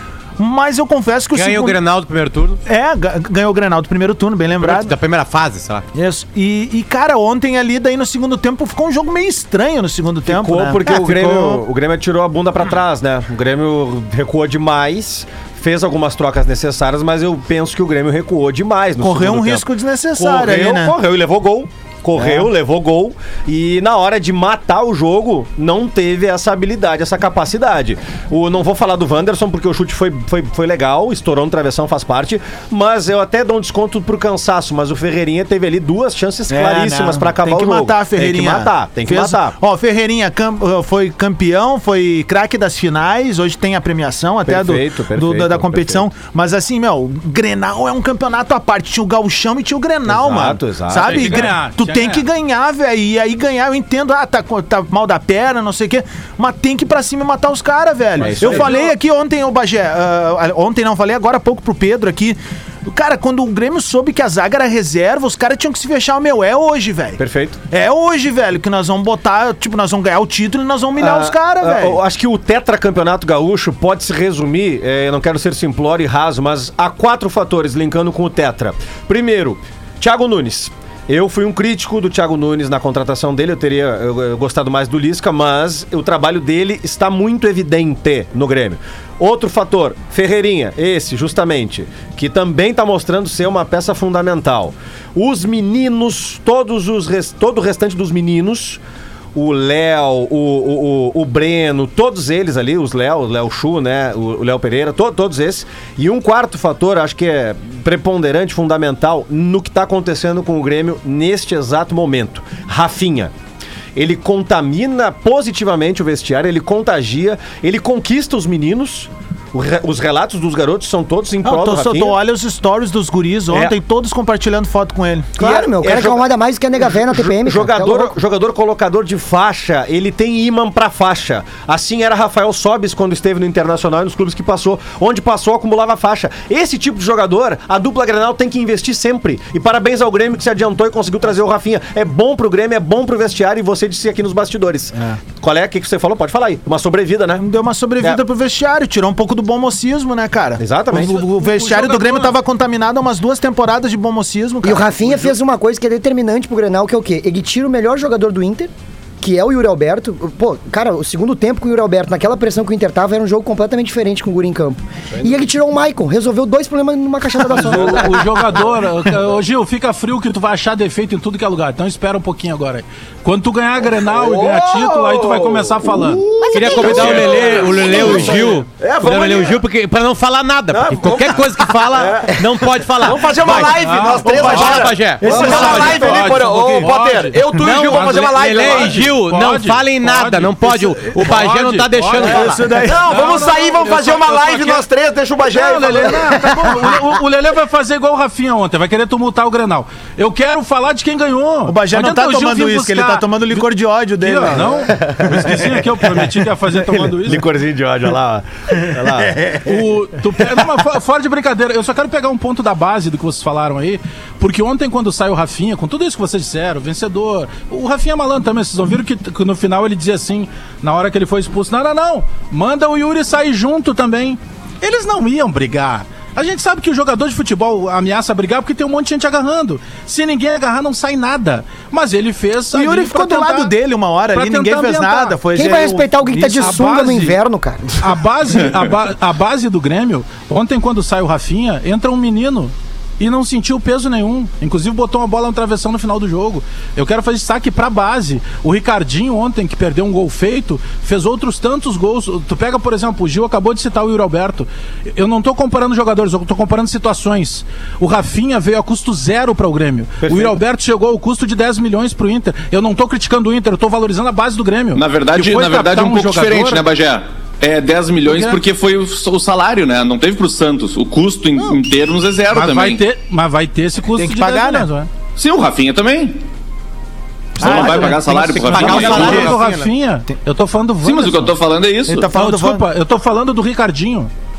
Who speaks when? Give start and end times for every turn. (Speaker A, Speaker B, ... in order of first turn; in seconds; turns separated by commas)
Speaker A: 0.4-1.8, Speaker B: 1.3-2.6, Speaker A: 2.6-4.9, Speaker B: 4.6-5.8, Speaker A: 5.9-11.6, Speaker C: 10.2-39.5, Speaker A: 19.0-20.9, Speaker A: 22.2-22.5, Speaker A: 36.5-72.0, Speaker C: 44.5-46.1, Speaker C: 50.0-51.5, Speaker D: 51.0-52.2, Speaker D: 58.2-58.9, Speaker C: 58.2-58.7, Speaker C: 67.2-67.6, Speaker C: 71.0-98.8, Speaker C: 99.3-113.3, Speaker C: 113.9-122.2, Speaker A: 121.4-125.5, Speaker C: 123.5-123.7, Speaker E: 125.4-128.1, Speaker C: 125.4-126.2, Speaker C: 126.8-147.4, Speaker A: 147.4-155.3, Speaker C: 150.6-151.1, Speaker D: 150.9-152.3, Speaker E: 154.6-168.4, Speaker F: 165.2-165.4, Speaker D: 167.5-176.2, Speaker F: 167.8-168.0, Speaker F: 174.1-179.6, Speaker E: 176.2-177.9, Speaker B: 176.5-185.9, Speaker F: 180.7-189.1, Speaker D: 183.7-194.8, Speaker A: 184.2-186.2, Speaker B: 187.6-192.6, Speaker A: 192.2-193.4, Speaker F: 192.3-196.9, Speaker D: 195.4-203.7, Speaker A: 201.7-205.4, Speaker D: 204.2-207.4, Speaker C: 207.2-209.6, Speaker D: 209.6-233.7, Speaker A: 232.7-236.9, Speaker D: 234.3-235.4, Speaker E: 235.5-237.9, Speaker D: 236.3-237.4, Speaker D: 238.0-266.8, Speaker C: 260.2-260.6, Speaker G: 264.9-273.0, Speaker D: 268.2-268.6, Speaker D: 272.5-275.1, Speaker A: 274.1-274.9, Speaker G: 275.4-276.4, Speaker G: 277.6-279.6, Speaker A: 277.6-279.9, Speaker D: 277.7-281.5, Speaker B: 278.7-279.8, Speaker G: 281.0-282.3, Speaker A: 282.1-282.9, Speaker D: 282.3-284.3